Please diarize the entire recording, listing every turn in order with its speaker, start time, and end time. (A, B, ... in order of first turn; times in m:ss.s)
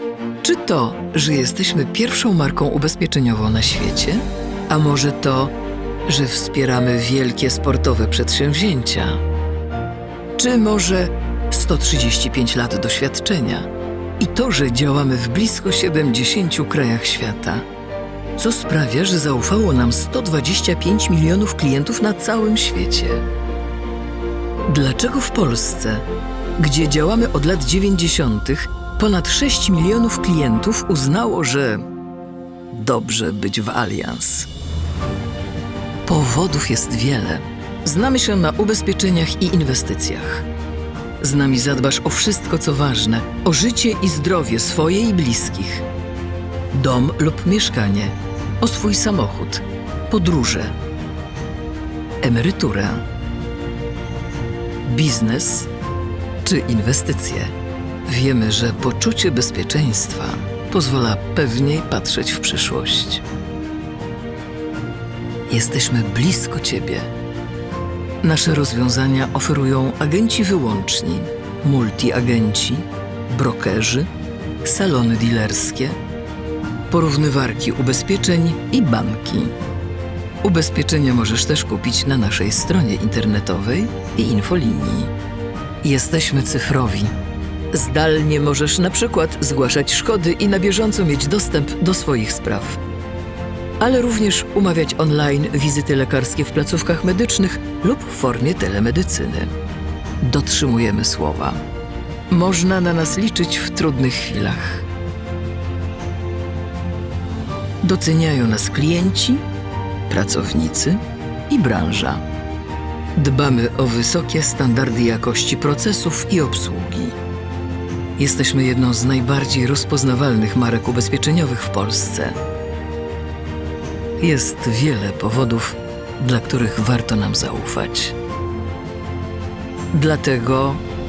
0:00.4-0:05.5 A
0:06.1-0:09.2 A
0:10.4-0:13.7 A
0:14.2-0:17.6 A
0:18.4-0:23.2 A
0:24.7-0:26.0 A
0:26.6-0:31.9 A
0:32.7-0:34.5 A
0:36.1-0:40.5 A
0:41.2-0:45.8 A
0:46.7-0:50.7 A
0:52.2-0:53.0 A
0:54.8-0:55.7 A
0:56.4-0:57.5 A
0:58.1-1:03.2 A
1:05.5-1:07.1 A
1:08.2-1:14.1 A
1:14.6-1:16.0 A
1:16.9-1:19.5 A
1:20.4-1:25.1 A
1:25.8-1:27.1 A
1:27.7-1:32.8 A
1:33.8-1:39.5 A
1:40.2-1:41.6 A
1:42.3-1:44.9 A
1:47.8-1:49.4 A
1:50.1-1:52.2 A
1:53.2-1:57.2 A
1:58.2-2:02.4 A
2:04.2-2:08.2 A
2:09.9-2:10.8 A